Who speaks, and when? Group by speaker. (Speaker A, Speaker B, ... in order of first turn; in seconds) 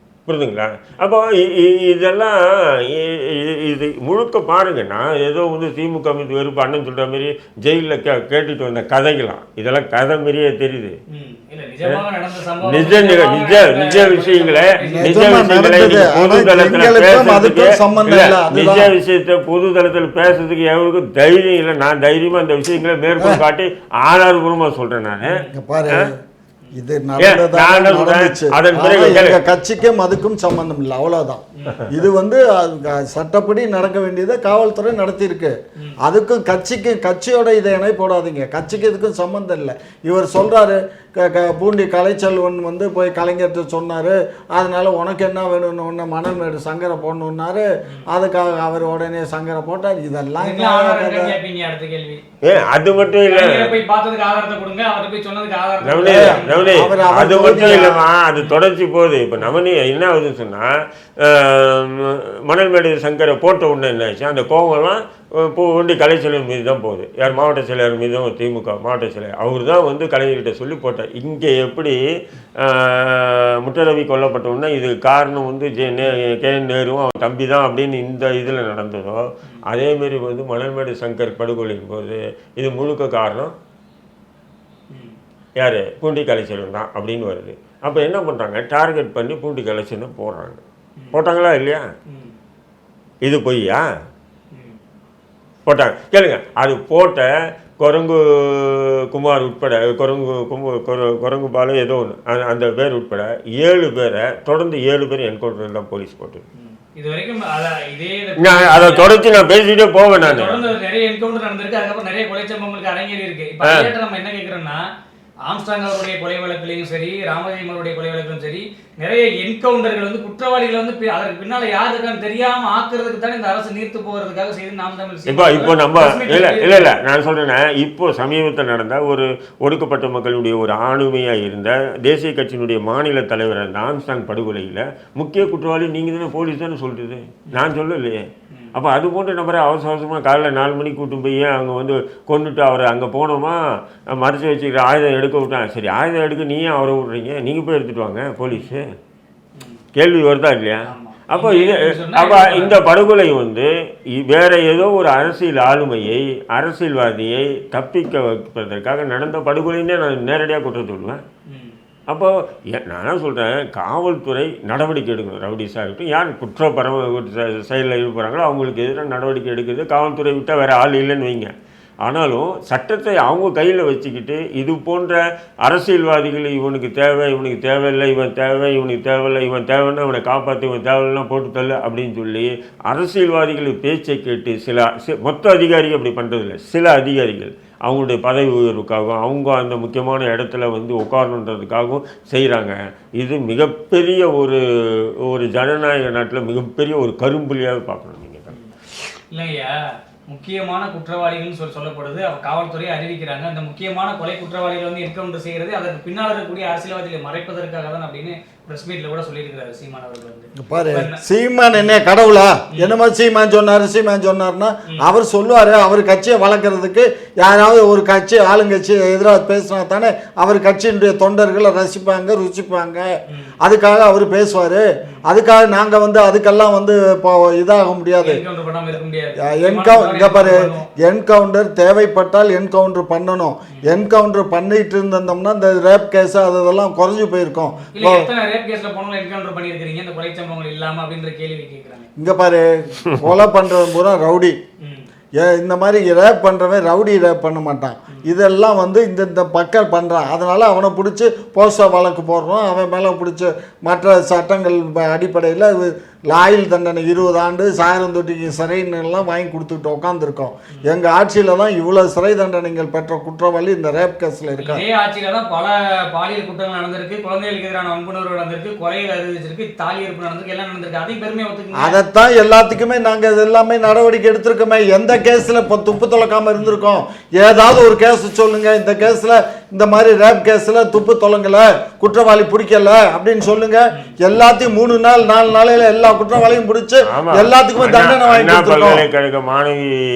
Speaker A: 0.3-11.0, 12.6-25.4, 27.2-29.4, 52.4-53.8, 55.8-60.7, 61.2-72.0, 72.6-83.5, 85.6-90.6, 91.1-91.8, 93.2-93.8, 95.7-106.4, 108.4-110.7, 113.6-113.9, 125.3-138.2, 138.7-148.8, 149.9-161.2, 162.1-171.5, 172.0-194.6, 195.3-198.5, 287.1-289.9
Speaker B: 11.1-15.2, 25.2-25.5, 31.6-31.8, 50.4-52.2, 53.2-57.1, 84.9-85.2, 92.1-92.3, 94.5-94.8, 106.6-109.2, 110.2-114.8, 115.5-127.0, 150.8-152.8, 161.5-161.8, 199.3-199.7, 200.3-211.2, 223.3-223.5, 228.2-230.9, 237.8-242.1, 264.6-272.0, 276.6-276.9
Speaker C: 14.9-18.9, 25.5-26.1, 26.7-51.4, 56.0-58.0, 210.6-223.1, 223.6-228.4, 229.5-238.3, 242.2-244.6, 245.4-264.8, 271.8-289.0